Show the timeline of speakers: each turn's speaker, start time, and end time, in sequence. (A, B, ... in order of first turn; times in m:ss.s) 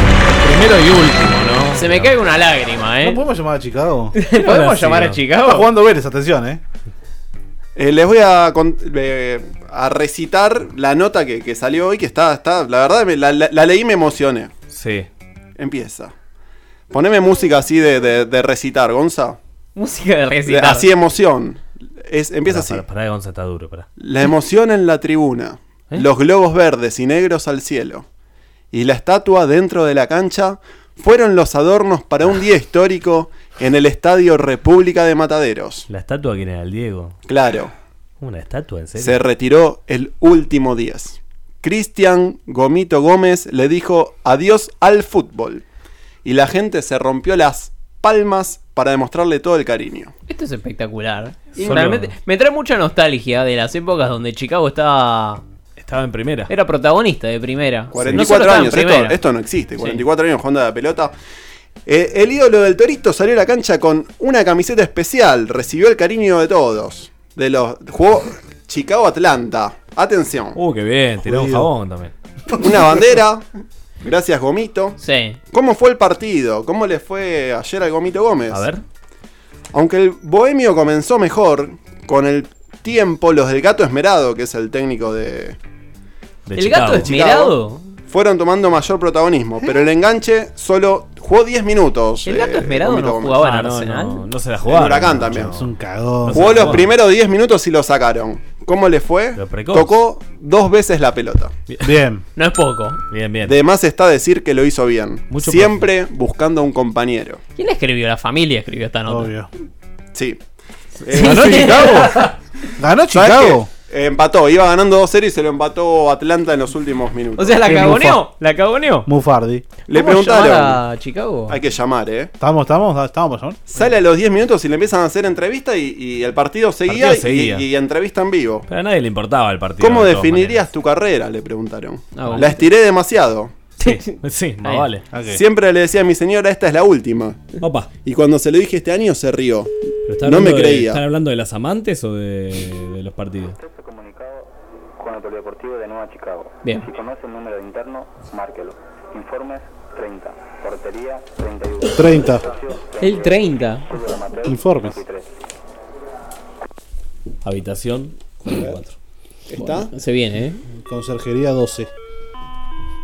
0:00.4-0:02.1 A
0:01.7-0:03.2 B
0:03.0-0:04.1 C
0:04.1-0:05.7 B
0:04.3-0:05.2 A
0:05.4-0:06.6 C
0:07.8-0:14.5 D
0:14.7-0:15.1 A
0:15.6-0:16.1 D
0:16.9-0:19.4 D
0:19.8-0:20.9 B
0:20.4-0:22.8 D
0:22.5-0:23.9 A
0:24.0-0:28.0 D
0:28.7-0:35.9 D
0:35.9-0:37.2 A
0:37.3-0:37.7 D
0:38.2-0:39.2 A
0:39.0-0:45.6 D
0:46.2-0:50.1 D
0:50.3-0:55.4 B
0:51.6-0:51.9 D
0:51.6-0:52.1 A
0:55.8-0:56.5 A
0:56.5-0:59.2 B
0:57.9-1:01.1 D
0:58.0-0:58.3 A
1:01.8-1:10.6 D
1:10.6-1:12.1 A
1:11.2-1:11.7 C
1:12.6-1:13.4 D
1:14.0-1:15.0 D
1:15.0-1:15.4 B
1:15.5-1:18.6 D
1:18.5-1:18.8 A
1:19.7-1:25.6 D
1:26.4-1:27.1 A
1:26.6-1:27.8 B
1:27.0-1:27.5 D
1:28.1-1:33.4 D
1:32.2-1:34.2 B
1:33.4-1:35.7 A
1:34.6-1:35.5 D
1:35.5-1:36.8 C
1:36.2-1:36.9 A
1:36.3-1:41.5 D
1:39.4-1:39.9 A
1:41.8-1:42.2 C
1:42.4-1:43.0 B
1:43.1-1:43.5 A
1:43.4-1:47.4 D
1:45.3-1:45.9 A
1:47.6-1:49.3 B
1:49.1-1:49.5 C
1:50.1-1:50.4 D
1:51.0-1:51.8 D
1:51.1-1:52.2 B
1:51.1-1:52.2 C
1:52.8-1:53.7 C
1:53.1-1:57.6 D
1:57.4-1:59.1 B
1:57.6-1:58.2 C
1:59.0-1:59.6 C
1:59.9-2:00.8 D
1:59.9-2:01.6 B
2:01.5-2:02.3 D
2:02.4-2:03.6 C
2:03.7-2:08.6 D
2:06.9-2:07.6 A
2:08.7-2:10.6 A
2:09.8-2:13.5 D
2:12.2-2:12.6 B
2:13.8-2:14.9 B
2:13.8-2:15.0 A
2:15.1-2:15.4 C
2:15.3-2:17.4 D
2:17.6-2:17.9 A
2:18.0-2:19.7 D
2:20.1-2:23.6 A
2:20.2-2:21.0 D
2:23.6-2:35.2 E
2:31.9-2:32.5 C
2:33.0-2:33.8 B
2:34.4-2:35.0 C
2:37.4-2:39.0 A
2:39.5-2:39.9 D
2:39.6-2:40.6 B
2:40.8-2:41.9 C